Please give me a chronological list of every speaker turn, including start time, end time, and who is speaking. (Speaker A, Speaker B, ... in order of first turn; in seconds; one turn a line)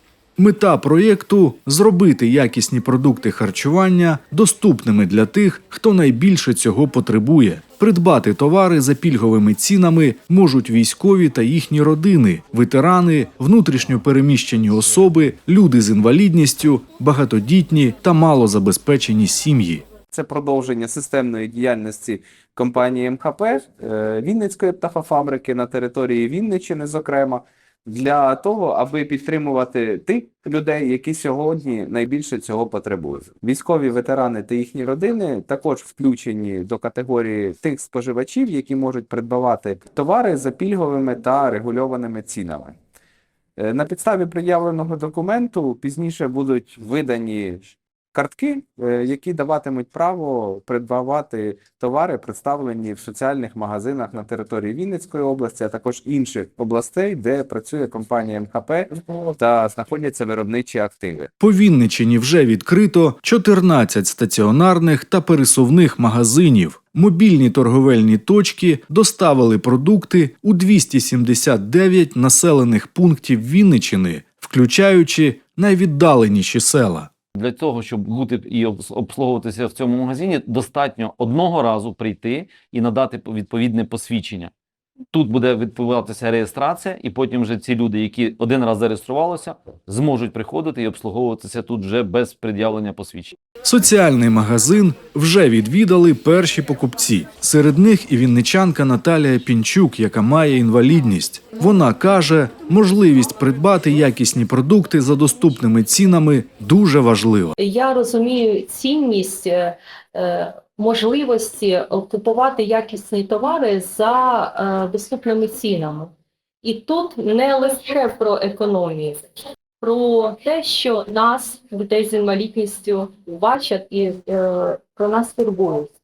Speaker A: 0.4-19.9
Speaker B: 20.1-42.8
Speaker B: 43.6-61.3
Speaker A: 61.4-77.1
Speaker C: 77.3-84.5
Speaker C: 85.1-93.4
Speaker A: 93.6-107.5
Speaker D: 107.6-119.2
Speaker D: 119.8-125.9